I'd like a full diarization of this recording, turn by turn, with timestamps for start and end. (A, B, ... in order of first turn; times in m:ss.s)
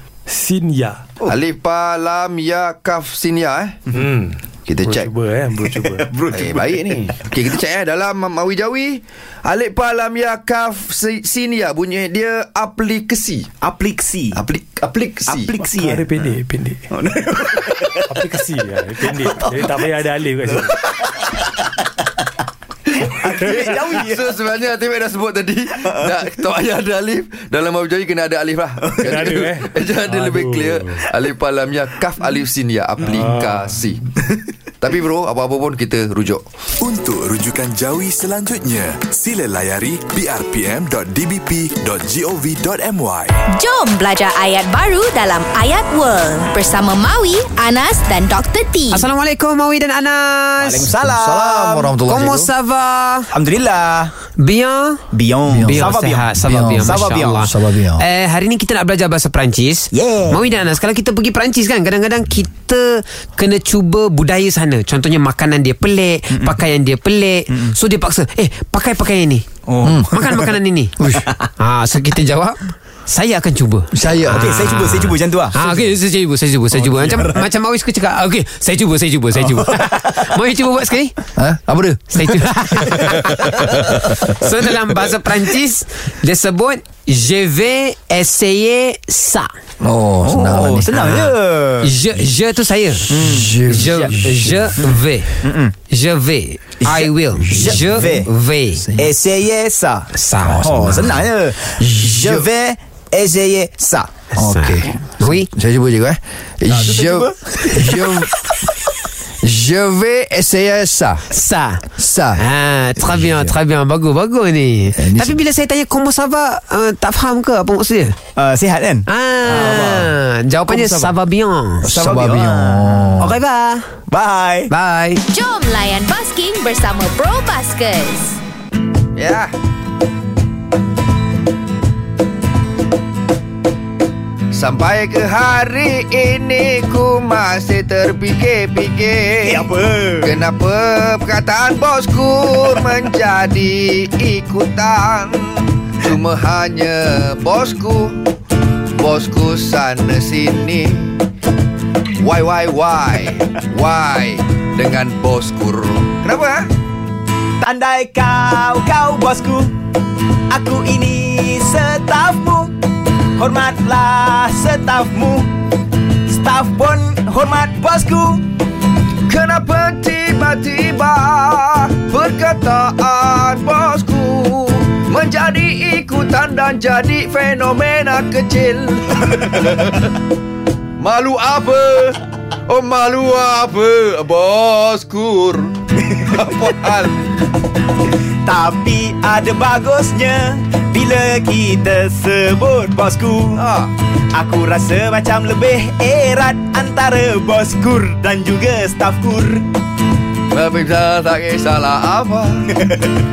0:00.3-0:01.0 A
0:01.2-0:03.8 B
0:04.0-0:05.9 A
0:04.7-0:05.1 B
0:05.5-0:07.1 C
0:06.3-0:13.5 B
0:13.6-0:14.4 C
0:14.3-0:15.6 B
0:15.3-0:18.3 C
0:15.7-0:16.8 A
0:18.1-0:20.7 A
0:19.0-0:19.9 C
0:20.4-0:21.3 C
0:22.9-0:34.0 B
0:23.0-0:24.3 C
0:25.8-0:26.1 C
0:28.9-0:29.3 C
0:29.0-0:31.0 A
0:33.0-0:33.7 A
0:34.8-0:36.4 B
0:36.8-0:43.4 D
0:43.5-0:49.1 E
0:48.9-0:50.9 F
0:50.6-0:52.0 C
0:51.0-0:52.5 B
0:52.0-0:53.3 F
0:53.3-0:54.2 C
0:54.4-1:09.4 F
0:55.1-0:57.5 C
0:55.5-0:58.0 B
0:59.9-1:00.4 C
1:06.3-1:06.6 C
1:07.5-1:07.8 C
1:09.7-1:10.5 C
1:10.0-1:11.0 F
1:11.1-1:11.4 C
1:11.6-1:21.2 F
1:13.9-1:14.5 B
1:14.3-1:15.8 C
1:16.7-1:17.5 C
1:19.3-1:20.3 C
1:21.4-1:24.3 B
1:22.1-1:29.5 F
1:22.9-1:23.2 C
1:29.8-1:31.2 B
1:30.2-1:32.0 C
1:31.0-1:31.3 F
1:31.8-1:35.3 F
1:33.1-1:34.2 C
1:33.3-1:34.7 B
1:35.4-1:35.7 C
1:35.9-1:39.0 F
1:36.8-1:38.3 C
1:37.5-1:38.1 B
1:39.0-1:44.1 C
1:40.1-1:41.2 F
1:40.4-1:41.2 B
1:41.8-1:42.5 B
1:44.4-1:45.5 F
1:44.4-1:48.3 B
1:46.7-1:48.7 C
1:49.4-1:51.2 B
1:51.3-1:58.2 F
1:52.0-1:52.4 B
1:53.0-1:53.5 B
1:55.0-1:55.4 B
1:58.4-2:00.1 C
1:59.1-2:02.0 F
1:59.6-2:00.0 B
2:00.7-2:01.1 C
2:01.8-2:03.3 B
2:02.0-2:03.4 C
2:03.2-2:03.9 F
2:04.1-2:04.7 C
2:04.7-2:05.2 F
2:05.3-2:08.4 E
2:09.2-2:09.5 B
2:14.5-2:19.7 B
2:19.5-2:20.3 C
2:20.2-2:28.2 B
2:29.0-2:31.2 B
2:32.2-2:36.7 B
2:37.6-2:39.7 C
2:40.5-2:42.7 C
2:43.4-2:45.5 C
2:46.3-2:48.4 C
2:49.3-3:00.1 B
3:01.0-3:07.4 B
3:08.4-3:13.6 C
3:13.6-3:13.9 B
3:14.3-3:19.7 C
3:20.5-3:22.7 B
3:22.8-3:23.1 C